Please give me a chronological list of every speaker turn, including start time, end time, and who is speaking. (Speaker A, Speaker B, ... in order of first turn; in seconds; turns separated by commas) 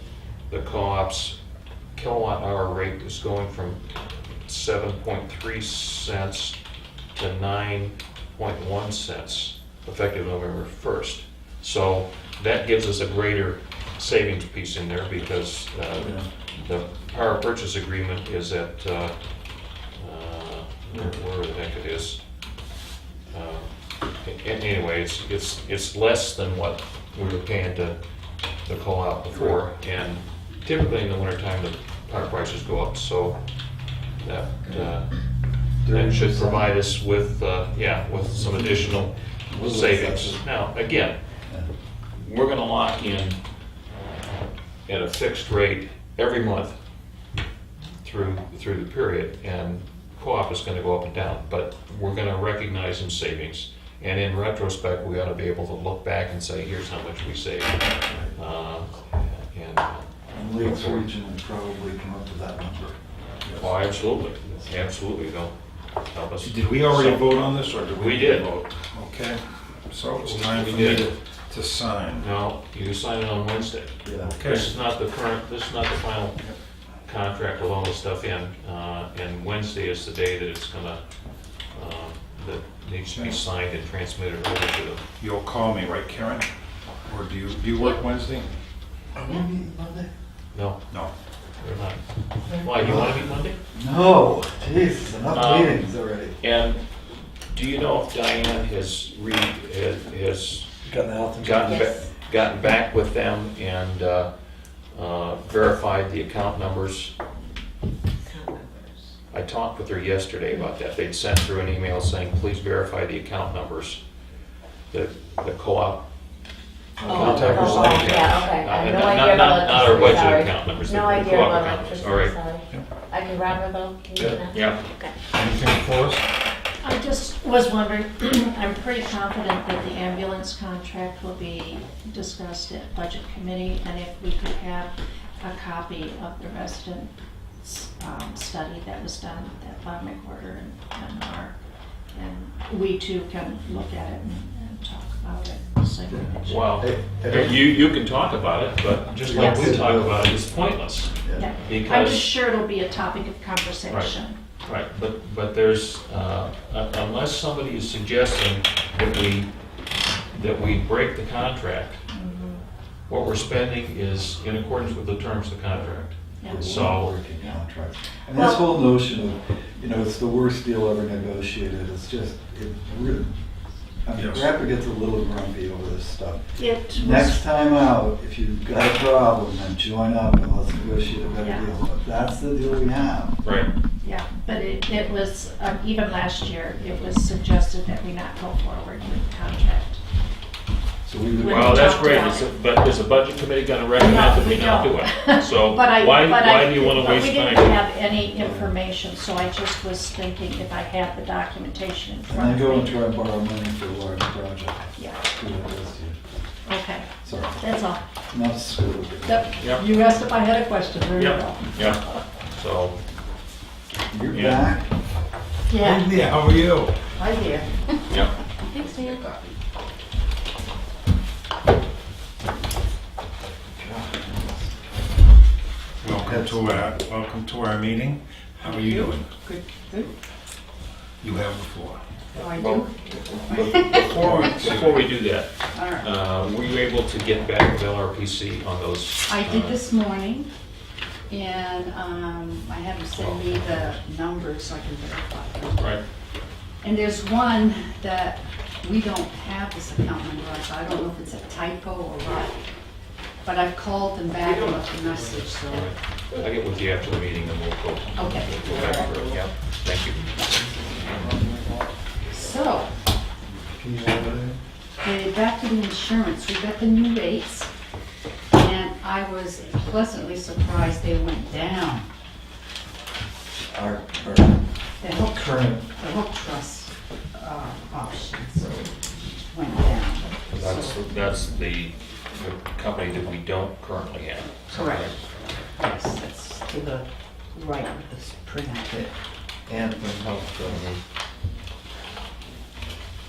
Speaker A: 0.5-1.4, Speaker A: 1.9-3.9, Speaker A: 4.5-6.6, Speaker A: 7.2-19.1, Speaker B: 15.9-16.3, Speaker A: 19.9-22.2, Speaker A: 23.3-23.7, Speaker A: 24.2-28.0, Speaker A: 28.6-33.4, Speaker A: 34.2-35.2, Speaker B: 35.8-36.7, Speaker A: 35.9-41.2, Speaker B: 38.4-40.5, Speaker A: 42.2-43.4, Speaker A: 44.9-46.8, Speaker A: 48.0-61.1, Speaker B: 58.1-58.3, Speaker B: 60.3-63.0, Speaker A: 63.5-65.5, Speaker A: 66.1-68.6, Speaker C: 66.4-72.3, Speaker A: 70.2-71.1, Speaker A: 72.2-76.4, Speaker B: 74.0-74.3, Speaker C: 74.2-74.7, Speaker A: 77.1-81.0, Speaker A: 81.7-85.0, Speaker C: 85.2-86.5, Speaker C: 87.1-88.5, Speaker B: 89.2-90.1, Speaker A: 90.5-90.8, Speaker A: 91.6-93.6, Speaker B: 92.8-93.2, Speaker B: 93.7-96.4, Speaker A: 95.3-95.8, Speaker A: 96.4-96.8, Speaker A: 97.5-100.7, Speaker B: 100.8-101.9, Speaker A: 101.4-104.3, Speaker A: 104.9-107.1, Speaker D: 108.3-108.8, Speaker A: 109.3-114.0, Speaker A: 114.9-116.0, Speaker B: 117.0-118.5, Speaker A: 117.0-122.4, Speaker D: 117.1-125.1, Speaker A: 124.2-124.8, Speaker C: 125.3-126.3, Speaker E: 126.8-141.6, Speaker E: 142.1-146.7, Speaker B: 146.1-147.9, Speaker A: 146.5-152.3, Speaker B: 149.3-150.4, Speaker E: 149.3-149.8, Speaker B: 151.2-151.5, Speaker E: 151.3-154.4, Speaker A: 154.6-159.5, Speaker A: 160.3-162.0, Speaker E: 162.1-162.6, Speaker A: 163.1-167.2, Speaker E: 166.4-166.7, Speaker B: 166.5-173.3, Speaker E: 168.3-168.7, Speaker B: 174.1-183.4, Speaker C: 174.2-174.5, Speaker E: 176.6-177.4, Speaker E: 181.4-181.7, Speaker A: 183.4-183.7, Speaker E: 184.0-190.0, Speaker B: 191.1-191.9, Speaker E: 191.4-192.5, Speaker A: 191.4-197.8, Speaker E: 194.0-203.0, Speaker B: 198.3-198.7, Speaker B: 202.3-206.2, Speaker E: 205.0-205.2, Speaker E: 206.7-208.0, Speaker B: 207.2-207.6, Speaker B: 208.3-209.5, Speaker E: 209.3-212.2, Speaker A: 209.6-209.9, Speaker A: 211.2-213.0, Speaker B: 214.1-214.9, Speaker A: 214.3-214.7, Speaker C: 215.8-217.1, Speaker F: 217.1-217.9, Speaker A: 218.1-218.4, Speaker E: 218.7-219.4, Speaker B: 223.6-225.0, Speaker C: 226.0-229.3, Speaker B: 226.2-226.9, Speaker F: 228.6-230.1, Speaker C: 231.2-232.0, Speaker A: 232.3-239.8, Speaker F: 232.3-234.4, Speaker C: 234.1-235.1, Speaker F: 235.7-236.2, Speaker F: 239.3-240.5, Speaker F: 241.3-246.0, Speaker A: 243.2-243.6, Speaker A: 245.8-246.0, Speaker F: 246.8-252.6, Speaker F: 253.4-255.9, Speaker A: 255.6-260.3, Speaker F: 258.2-258.7, Speaker B: 260.8-261.9, Speaker A: 261.0-261.3, Speaker F: 262.3-262.9, Speaker B: 263.5-264.6, Speaker F: 265.0-267.7, Speaker F: 268.5-272.1, Speaker B: 273.7-274.6, Speaker F: 275.0-278.9, Speaker B: 275.1-275.8, Speaker F: 279.5-281.0, Speaker A: 280.5-285.2, Speaker F: 284.7-285.2, Speaker F: 285.8-289.1, Speaker B: 289.7-290.9, Speaker A: 290.6-291.0